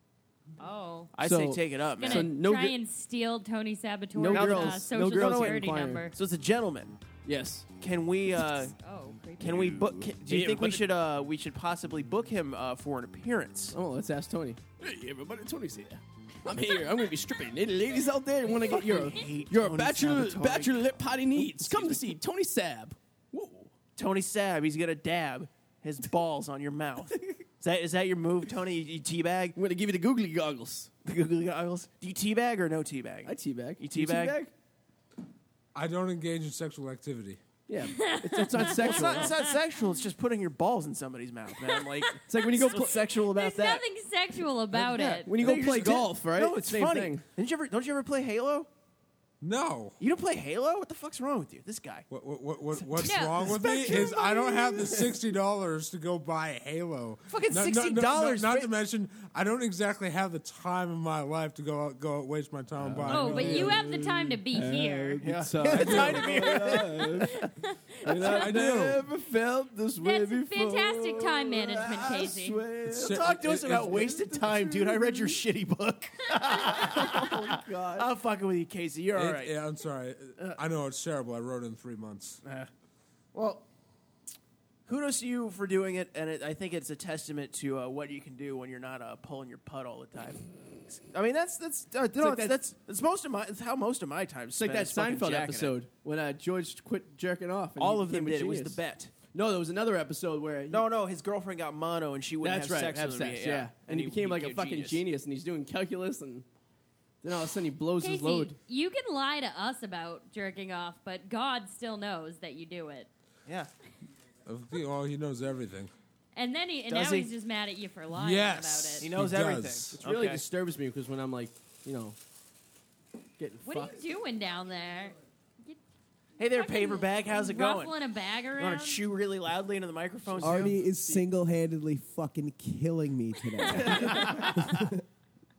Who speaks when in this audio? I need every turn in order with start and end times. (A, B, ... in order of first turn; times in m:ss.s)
0:00.6-0:01.1 A
0:01.2-0:02.3 B
0:01.2-0:02.8 C
0:02.0-0:06.1 A
0:04.1-0:06.1 C
0:04.3-0:07.0 B
0:07.2-0:07.7 C
0:07.8-0:08.7 B
0:08.8-0:09.8 A
0:09.4-0:13.8 B
0:09.7-0:10.9 C
0:13.7-0:23.7 C
0:18.7-0:22.1 B
0:24.0-0:29.6 B
0:29.6-0:30.9 C
0:31.0-0:34.4 B
0:33.3-0:34.5 C
0:35.7-0:37.4 D
0:37.7-0:39.3 C
0:38.0-0:39.5 A
0:38.6-0:43.8 B
0:42.2-0:43.0 C
0:42.7-0:45.3 A
0:44.7-0:48.7 B
0:45.2-0:47.2 C
0:49.4-0:50.0 D
0:50.0-0:52.1 B
0:52.1-1:03.8 D
0:52.7-0:53.1 B
0:53.0-0:55.0 A
0:57.3-0:58.7 B
1:02.8-1:07.4 C
1:03.1-1:05.2 A
1:03.2-1:03.6 B
1:05.2-1:07.5 B
1:05.6-1:06.3 D
1:07.4-1:08.4 A
1:08.0-1:15.3 C
1:08.2-1:09.1 D
1:10.0-1:12.6 A
1:12.9-1:14.1 D
1:13.0-1:19.5 B
1:16.6-1:18.1 C
1:19.1-1:22.4 D
1:22.4-1:22.7 B
1:23.3-1:23.6 B
1:24.9-1:35.8 B
1:32.2-1:32.6 C
1:34.6-1:38.8 C
1:37.8-1:39.1 B
1:39.3-1:40.8 C
1:40.7-1:45.0 B
1:42.4-1:46.5 C
1:47.2-1:48.6 C
1:48.0-1:53.1 A
1:54.4-1:55.9 D
1:56.4-1:59.1 A
1:56.9-1:57.3 B
1:58.1-2:00.0 D
1:59.0-2:00.4 B
2:00.0-2:02.2 C
2:03.4-2:04.0 C
2:03.6-2:05.8 A
2:06.4-2:07.9 B
2:06.5-2:09.0 A
2:08.6-2:10.8 B
2:10.3-2:11.3 C
2:10.4-2:15.0 E
2:13.8-2:14.6 B
2:14.0-2:14.3 C